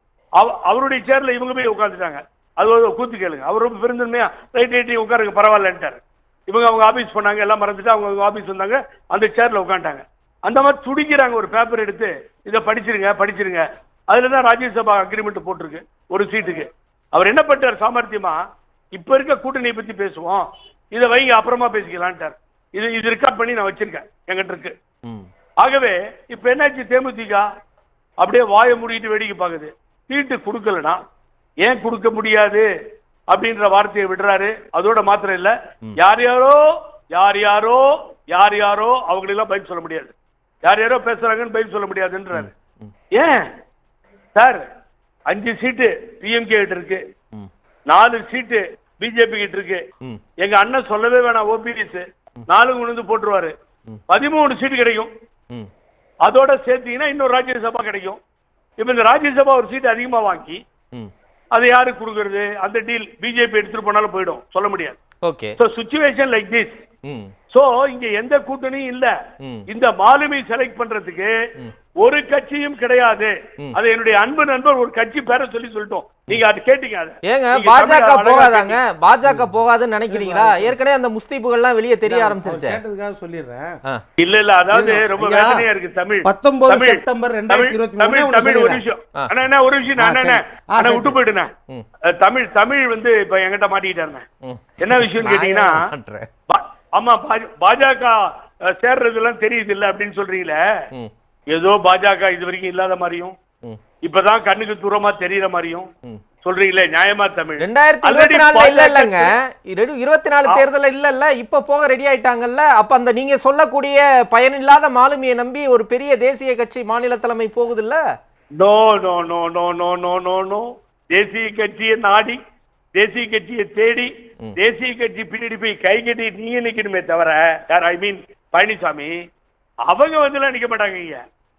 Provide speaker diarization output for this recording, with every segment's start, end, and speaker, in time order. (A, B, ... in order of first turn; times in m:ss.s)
0:00.4-0:18.4 A
0:18.9-0:24.8 A
0:25.6-0:27.4 A
0:28.2-0:31.0 A
0:31.6-0:32.7 A
0:33.3-0:36.6 A
0:37.1-0:40.1 A
0:40.6-0:42.5 A
0:42.3-0:42.9 B
0:43.2-0:43.5 A
0:44.4-0:44.6 A
0:45.3-0:47.0 A
0:47.9-0:49.8 A
0:50.4-0:53.5 A
0:54.1-0:55.1 A
0:56.2-0:58.2 A
0:58.8-1:00.6 A
1:01.6-1:05.0 A
1:05.2-1:05.6 B
1:05.6-1:06.8 A
1:07.1-1:07.3 B
1:07.5-1:09.1 A
1:09.7-1:11.3 A
1:12.0-1:18.8 A
1:17.2-1:22.8 B
1:19.2-1:19.5 C
1:20.1-1:20.8 C
1:22.0-1:23.8 C
1:24.2-1:31.5 A
1:24.7-1:25.6 C
1:26.2-1:28.8 C
1:30.0-1:31.2 C
1:32.1-1:34.2 A
1:34.4-1:36.3 B
1:34.8-1:35.9 A
1:36.5-1:40.6 A
1:41.5-1:43.3 A
1:44.0-1:45.9 A
1:46.4-1:49.3 A
1:47.6-1:58.0 B
1:58.6-2:02.4 A
2:03.0-2:09.2 A
2:09.9-2:11.2 A